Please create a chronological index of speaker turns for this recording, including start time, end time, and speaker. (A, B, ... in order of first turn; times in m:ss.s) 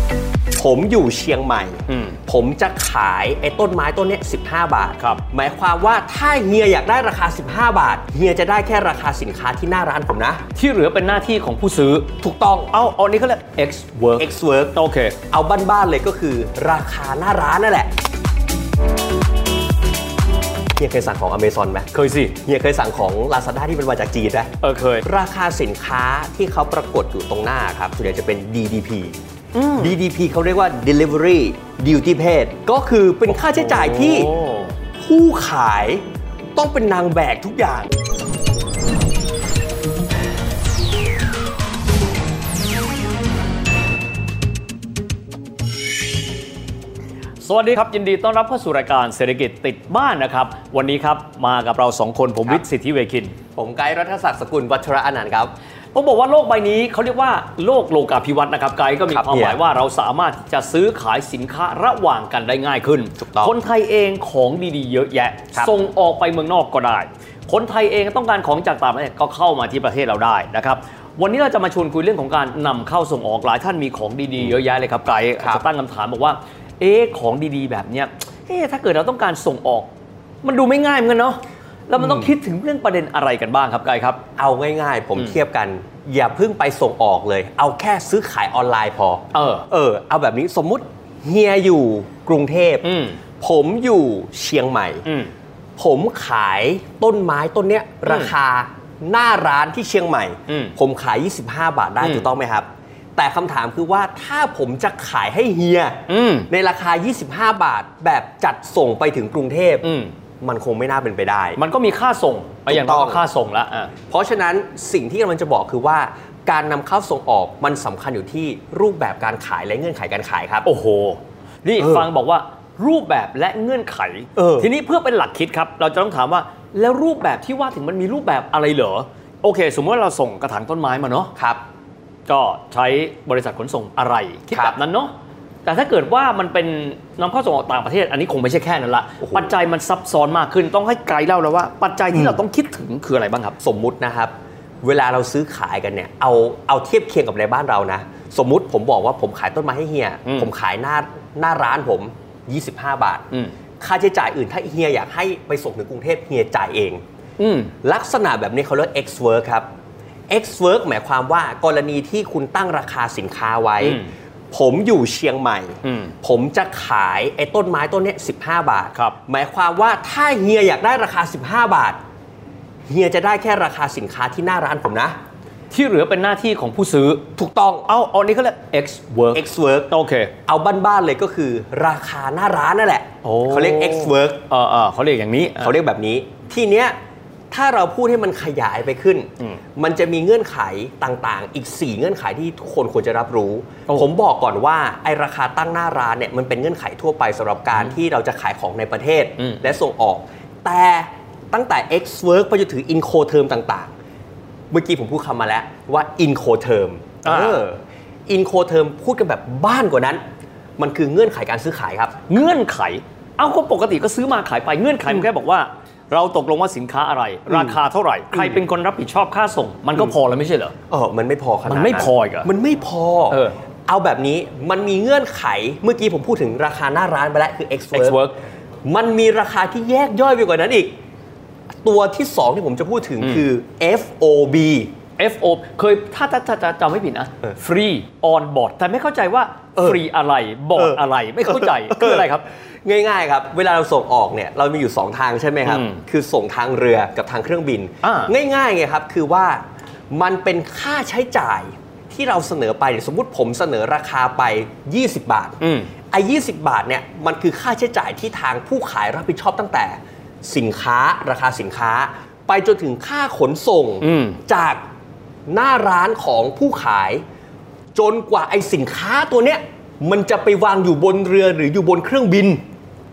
0:00.5-0:10.4 A
0:01.9-0:02.2 B
0:10.6-0:12.1 B
0:12.2-0:12.7 A
0:12.7-0:15.2 B
0:14.2-0:17.9 A
0:20.8-0:24.5 A
0:21.9-0:22.4 B
0:24.6-0:25.1 B
0:25.0-0:29.2 A
0:29.5-0:30.0 B
0:29.8-0:34.3 A
0:33.4-0:34.8 B
0:35.0-0:36.0 A
0:36.6-0:37.9 A
0:47.4-0:53.4 B
0:53.6-0:55.5 A
0:55.9-1:19.9 B
0:59.1-0:59.6 A
1:03.2-1:03.6 A
1:15.4-1:15.6 A
1:20.4-1:24.2 B
1:22.0-1:22.3 A
1:24.4-1:32.9 A
1:29.3-1:29.7 B
1:32.8-1:33.2 B
1:33.4-1:35.0 A
1:35.0-1:35.3 B
1:35.8-1:49.9 A
1:38.1-1:38.3 B
1:40.5-1:40.8 B
1:42.0-1:42.3 B
1:46.1-1:46.5 B
1:49.8-1:50.1 B
1:50.4-1:51.6 A
1:51.6-1:53.9 B
1:52.7-1:53.2 A
1:54.1-2:00.7 A
2:00.6-2:11.3 B
2:01.8-2:02.1 A
2:04.4-2:04.7 A
2:11.4-2:11.6 A
2:12.3-2:15.1 B
2:14.5-2:14.8 A
2:15.6-2:23.6 B
2:22.1-2:22.4 A
2:23.6-2:33.3 A
2:33.8-2:37.0 A
2:37.4-2:37.7 B
2:37.8-2:39.7 A
2:40.3-2:52.0 A
2:43.8-2:44.1 B
2:45.8-2:46.1 B
2:52.9-2:55.2 A
2:55.7-2:57.2 B
2:57.4-2:57.9 A
2:57.9-3:00.3 B
2:59.3-3:00.0 A
3:00.5-3:04.4 A
3:03.2-3:05.8 B
3:05.6-3:07.0 A
3:07.5-3:23.9 A
3:19.4-3:19.8 B
3:24.7-3:30.2 A
3:27.2-3:27.6 B
3:30.8-3:32.2 A
3:32.3-3:40.8 B
3:37.5-3:37.8 A
3:38.3-3:38.6 A
3:40.9-3:48.2 A
3:41.7-3:42.5 B
3:43.3-3:43.6 B
3:47.9-3:48.4 B
3:48.8-3:51.0 A
3:51.8-3:54.9 A
3:55.2-4:02.4 B
3:59.8-4:00.0 A
4:00.8-4:15.6 A
4:05.6-4:06.0 B
4:08.0-4:08.3 B
4:15.6-4:15.9 B
4:16.1-4:24.8 A
4:24.0-4:24.4 B
4:25.5-4:27.2 A
4:28.0-4:32.6 A